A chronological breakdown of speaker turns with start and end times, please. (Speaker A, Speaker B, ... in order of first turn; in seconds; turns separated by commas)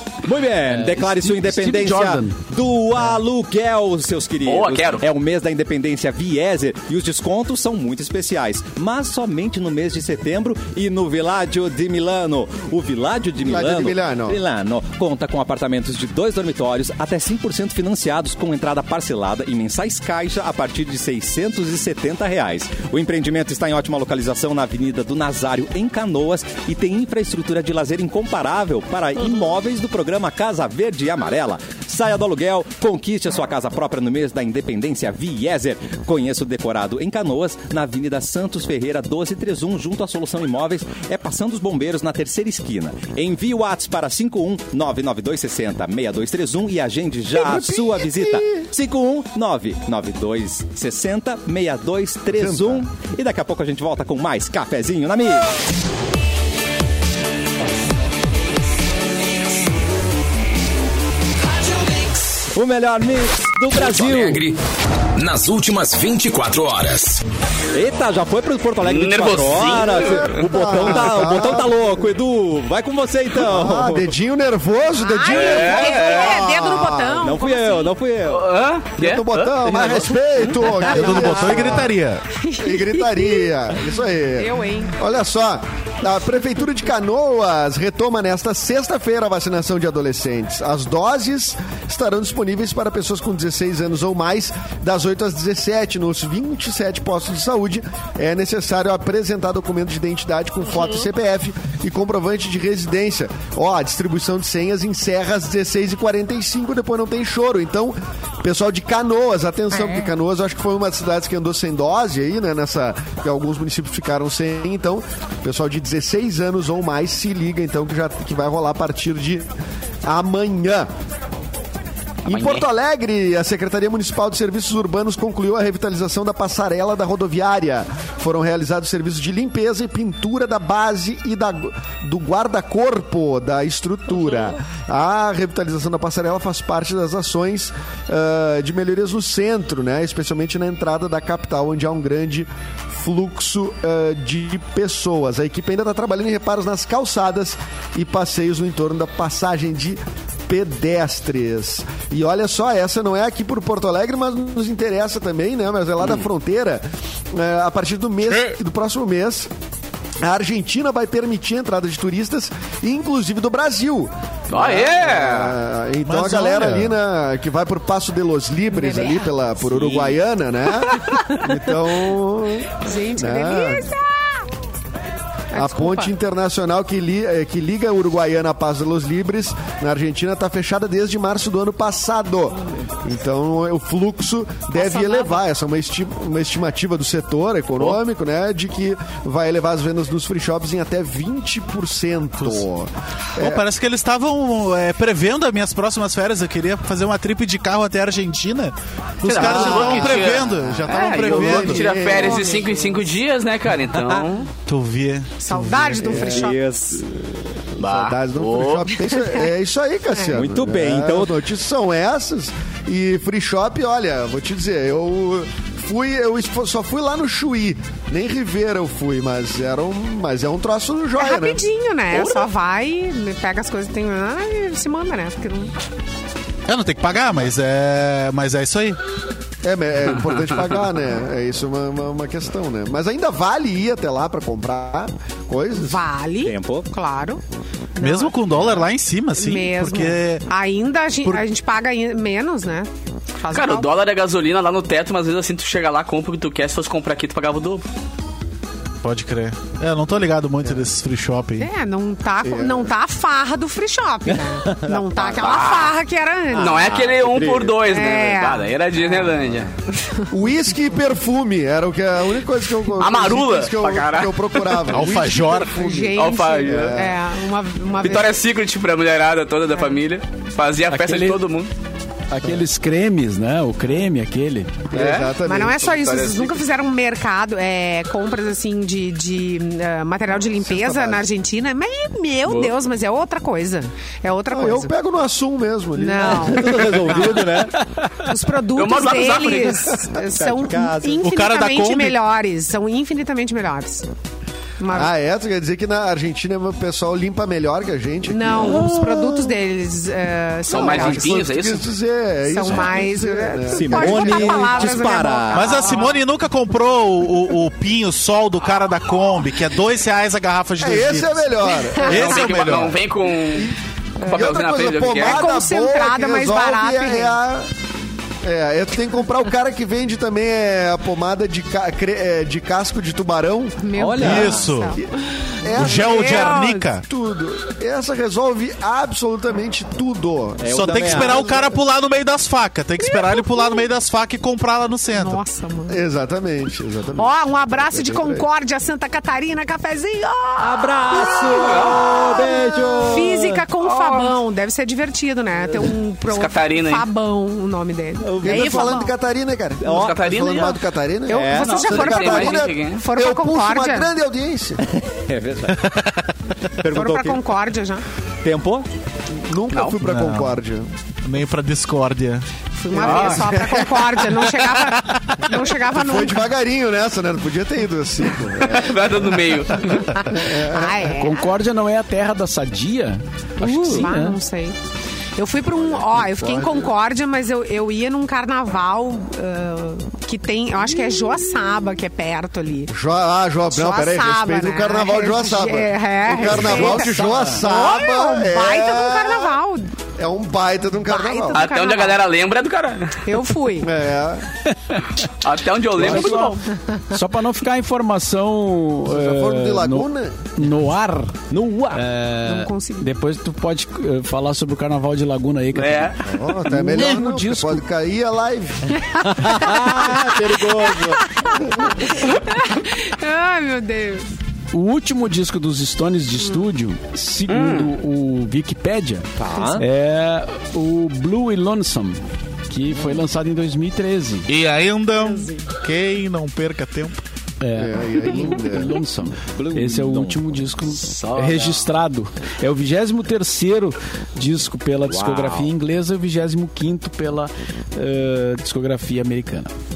Speaker A: 0.2-55.5, Speaker B: 0.3-2.4, Speaker C: 4.4-5.0, Speaker D: 13.4-14.4, Speaker D: 47.3-48.7, Speaker D: 52.3-52.9, Speaker A: 62.5-64.4, Speaker E: 63.7-64.6, Speaker E: 65.2-67.2, Speaker A: 67.7-74.1, Speaker C: 68.8-70.8, Speaker D: 69.8-72.0, Speaker D: 73.3-77.3, Speaker F: 75.0-78.0, Speaker C: 75.3-76.5, Speaker A: 77.2-78.5, Speaker C: 78.3-80.8, Speaker D: 79.0-82.0, Speaker G: 80.8-82.2, Speaker F: 80.9-83.5, Speaker D: 82.6-119.5, Speaker F: 84.4-85.0, Speaker D: 120.0-120.9, Speaker D: 122.2-159.5, Speaker C: 122.3-122.6, Speaker D: 160.2-173.9, Speaker C: 164.5-165.6, Speaker G: 166.1-166.9, Speaker F: 168.7-169.3, Speaker F: 172.8-174.4, Speaker F: 175.5-176.1, Speaker D: 175.5-193.6, Speaker F: 184.7-185.4, Speaker G: 193.4-201.8, Speaker C: 199.2-204.5, Speaker D: 199.3-202.7, Speaker F: 199.7-199.9, Speaker F: 200.9-203.0, Speaker G: 204.7-206.2, Speaker F: 205.4-207.0, Speaker D: 206.0-206.5, Speaker A: 206.1-207.1, Speaker D: 207.7-221.6, Speaker C: 207.8-208.9, Speaker F: 209.2-209.4, Speaker A: 210.3-211.3, Speaker F: 221.2-225.7, Speaker C: 222.1-222.5, Speaker G: 226.7-229.0, Speaker D: 229.6-236.0, Speaker F: 235.7-237.4, Speaker A: 236.4-236.9, Speaker F: 237.9-238.7, Speaker G: 238.0-240.4, Speaker F: 239.3-243.9, Speaker C: 243.5-247.8, Speaker G: 249.0-251.7, Speaker F: 251.6-256.9, Speaker D: 252.4-252.9, Speaker A: 254.3-255.5, Speaker C: 255.4-256.0, Speaker A: 256.5-257.8, Speaker C: 256.5-259.7, Speaker F: 257.8-259.3, Speaker F: 260.0-260.3, Speaker D: 260.3-267.2, Speaker C: 263.0-264.9, Speaker G: 264.9-265.8, Speaker F: 265.6-268.4, Speaker C: 266.1-267.0, Speaker C: 267.9-271.7, Speaker F: 269.7-270.0, Speaker B: 270.9-271.4, Speaker B: 272.3-274.8, Speaker D: 274.9-275.8, Speaker C: 274.9-276.6, Speaker F: 275.4-284.9, Speaker D: 280.6-281.2, Speaker C: 282.4-282.7, Speaker D: 284.5-286.8, Speaker F: 285.9-294.1, Speaker A: 286.2-287.8, Speaker C: 288.7-290.0, Speaker A: 290.3-291.3, Speaker G: 291.2-292.2, Speaker F: 294.8-295.1, Speaker D: 294.9-298.8, Speaker F: 298.3-301.4, Speaker A: 298.5-299.6, Speaker C: 300.7-301.9, Speaker D: 300.7-305.1, Speaker F: 302.5-306.2, Speaker A: 303.7-306.0, Speaker G: 305.5-311.5, Speaker D: 310.8-312.8, Speaker F: 311.9-312.4, Speaker G: 312.0-313.0, Speaker C: 312.0-315.4, Speaker D: 313.5-317.7, Speaker F: 314.2-314.5, Speaker F: 315.1-317.4, Speaker D: 318.4-324.4, Speaker F: 323.8-325.0, Speaker A: 323.9-324.7, Speaker G: 324.2-325.0, Speaker D: 325.6-331.8, Speaker G: 325.7-327.0, Speaker F: 325.8-326.9, Speaker A: 330.6-331.6, Speaker G: 330.7-335.4, Speaker F: 333.0-333.9, Speaker F: 335.1-336.0, Speaker D: 335.9-338.4, Speaker F: 337.1-349.1, Speaker A: 340.6-343.6, Speaker C: 341.5-342.0, Speaker C: 343.8-344.4, Speaker C: 346.2-347.1, Speaker A: 348.2-348.9, Speaker D: 348.4-354.8, Speaker A: 349.8-350.2, Speaker C: 349.8-350.8, Speaker F: 351.3-354.1, Speaker A: 351.3-352.6, Speaker C: 351.6-353.0, Speaker A: 354.9-355.9, Speaker G: 355.8-356.2, Speaker A: 356.8-357.4, Speaker F: 356.9-358.0, Speaker A: 358.4-358.9, Speaker D: 359.4-360.9, Speaker C: 359.7-360.0, Speaker G: 360.0-360.6, Speaker G: 361.2-362.4, Speaker F: 362.7-366.4, Speaker D: 362.9-363.9, Speaker C: 363.0-363.6, Speaker G: 365.0-365.3, Speaker D: 365.9-369.4, Speaker C: 368.6-370.1, Speaker F: 370.1-371.5, Speaker D: 370.3-371.1, Speaker B: 371.1-374.4, Speaker A: 373.6-374.1, Speaker F: 373.6-374.8, Speaker F: 375.4-382.9, Speaker D: 375.8-376.9, Speaker D: 382.9-389.6, Speaker F: 383.7-389.9, Speaker B: 386.5-387.6, Speaker D: 390.2-391.6, Speaker F: 391.0-392.2, Speaker C: 391.5-393.3, Speaker F: 393.2-393.9, Speaker D: 393.8-394.5, Speaker B: 394.7-395.2, Speaker C: 395.2-396.6, Speaker B: 395.9-407.8, Speaker D: 399.1-400.3, Speaker A: 401.5-402.0, Speaker F: 402.4-403.1, Speaker C: 405.7-406.2, Speaker D: 406.2-408.9, Speaker F: 409.1-410.2, Speaker A: 409.3-411.2, Speaker F: 410.9-414.3, Speaker B: 414.7-424.5, Speaker C: 417.5-417.9, Speaker A: 419.4-419.8, Speaker G: 424.5-427.2, Speaker F: 425.2-425.5, Speaker B: 427.6-439.7, Speaker D: 427.8-429.0, Speaker A: 429.5-430.6, Speaker C: 431.0-431.9, Speaker A: 435.0-435.7